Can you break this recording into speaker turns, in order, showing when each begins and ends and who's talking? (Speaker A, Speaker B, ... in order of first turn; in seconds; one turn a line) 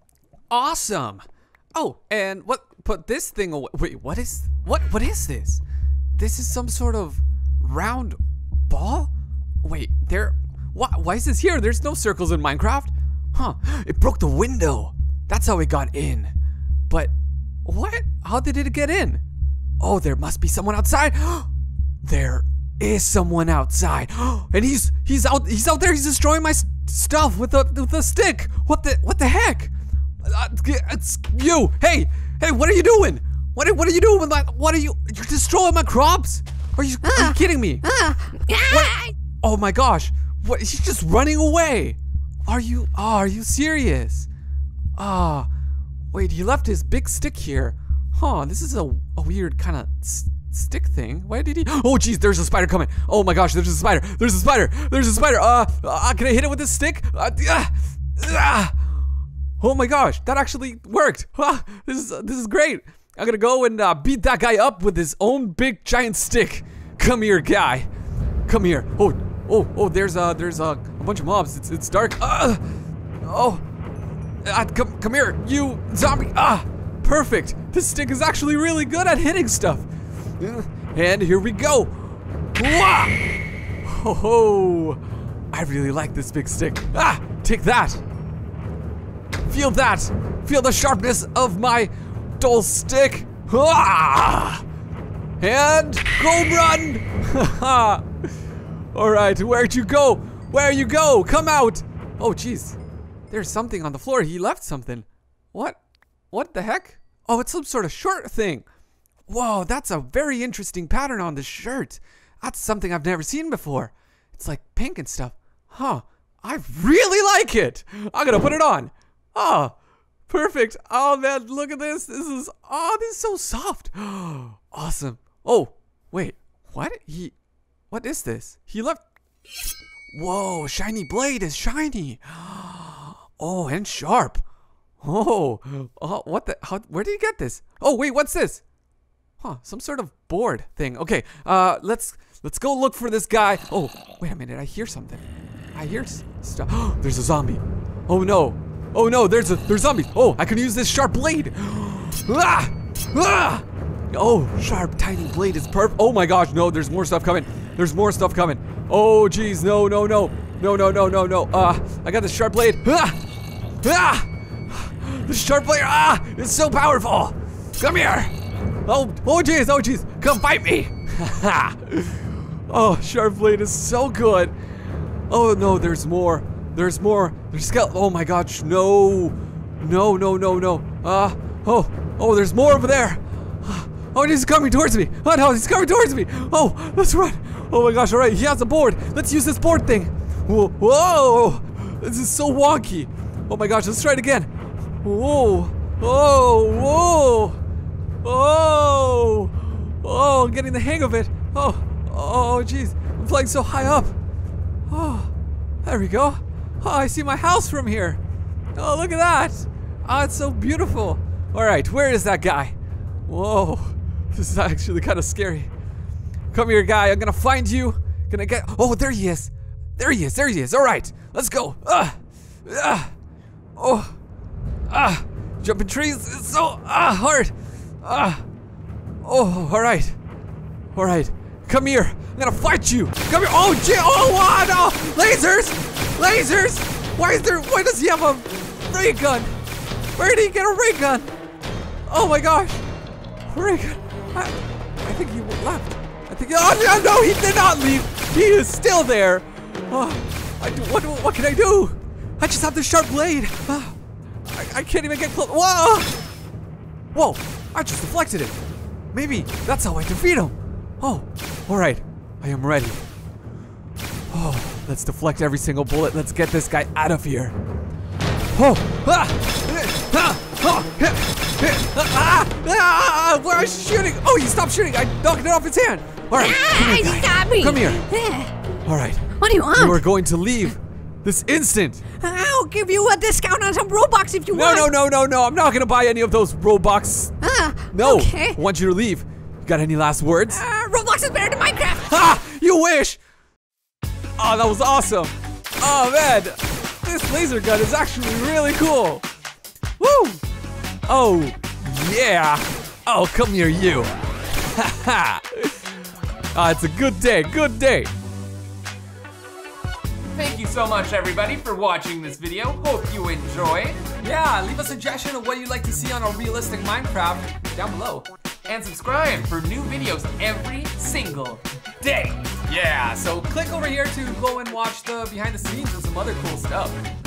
Speaker A: 0.5-5.6
Speaker A: 6.2-9.1
Speaker A: 9.6-16.3
Speaker A: 17.6-19.2
Speaker A: 19.8-21.5
Speaker A: 22.0-37.9
Speaker B: 37.0-39.1
Speaker A: 38.7-44.3
Speaker A: 45.0-45.5
Speaker A: 46.1-58.9
Speaker A: 59.6-67.9
Speaker A: 68.5-72.6
Speaker A: 73.2-73.6
Speaker A: 74.5-79.9
Speaker A: 80.4-83.2
Speaker A: 83.8-85.0
Speaker A: 85.5-88.0
Speaker A: 89.5-94.6
Speaker A: 95.4-98.1
Speaker A: 98.9-102.8
Speaker A: 103.3-105.8
Speaker A: 106.3-108.7
Speaker A: 109.3-119.8
Speaker A: 120.3-127.3
Speaker A: 127.9-129.0
Speaker A: 130.1-134.4
Speaker A: 135.0-138.6
Speaker A: 139.4-163.2
Speaker A: 163.8-168.3
Speaker A: 168.8-174.6
Speaker A: 175.3-194.5
Speaker A: 195.0-197.6
Speaker A: 198.2-204.2
Speaker A: 204.9-205.3
Speaker A: 205.8-208.2
Speaker A: 208.8-212.8
Speaker A: 213.3-215.7
Speaker A: 216.5-223.1
Speaker A: 223.8-224.2
Speaker A: 224.9-228.4
Speaker A: 229.2-230.2
Speaker A: 230.9-239.5
Speaker A: 240.2-241.3
Speaker A: 242.1-242.8
Speaker A: 243.5-253.9
Speaker A: 254.5-256.2
Speaker A: 257.1-258.6
Speaker A: 259.1-263.0
Speaker A: 264.3-267.6
Speaker A: 268.5-278.0
Speaker B: 276.3-278.5
Speaker A: 278.9-282.1
Speaker B: 279.4-280.1
Speaker B: 282.2-284.9
Speaker A: 284.5-287.4
Speaker B: 287.4-288.6
Speaker A: 287.9-290.6
Speaker B: 290.5-292.4
Speaker A: 292.0-293.2
Speaker A: 294.4-299.3
Speaker A: 300.0-300.4
Speaker A: 301.1-304.1
Speaker A: 304.7-305.8
Speaker A: 306.5-308.1
Speaker C: 310.3-314.0
Speaker A: 314.0-327.0
Speaker C: 318.7-321.5